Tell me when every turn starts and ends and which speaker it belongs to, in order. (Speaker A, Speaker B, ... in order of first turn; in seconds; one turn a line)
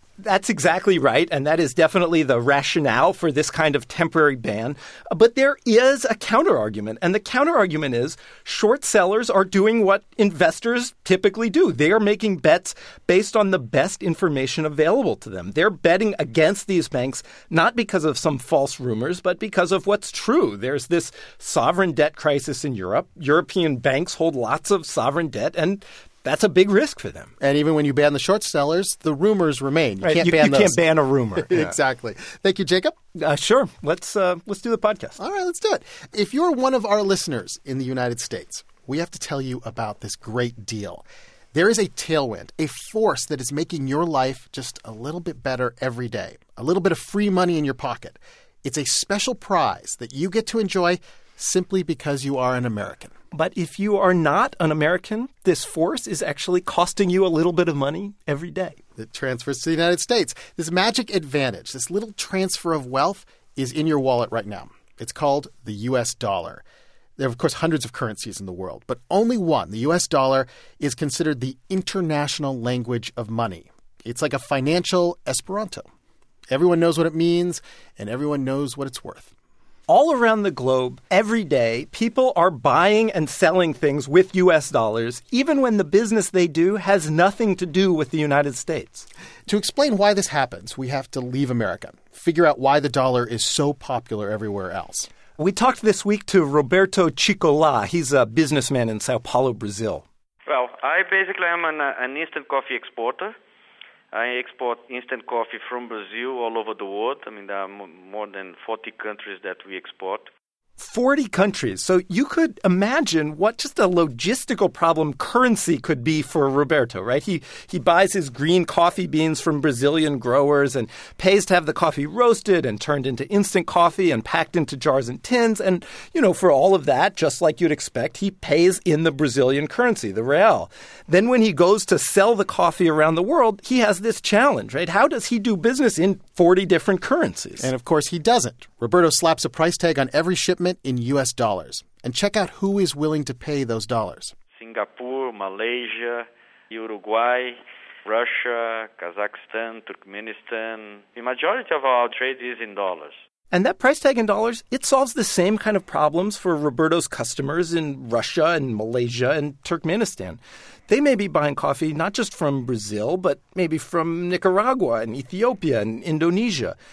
Speaker A: 0.2-27.3
Speaker B: 27.4-30.8
Speaker A: 30.0-31.7
Speaker B: 31.4-32.9
Speaker A: 33.1-35.2
Speaker B: 35.2-53.1
Speaker A: 53.3-58.8
Speaker B: 59.0-66.6
Speaker B: 67.2-75.9
Speaker B: 76.5-79.3
Speaker A: 79.9-89.1
Speaker B: 89.5-95.1
Speaker A: 95.4-100.0
Speaker C: 100.5-103.3
Speaker C: 104.1-110.3
Speaker A: 110.8-137.7
Speaker B: 137.6-144.3
Speaker C: 144.5-153.1
Speaker A: 153.5-166.8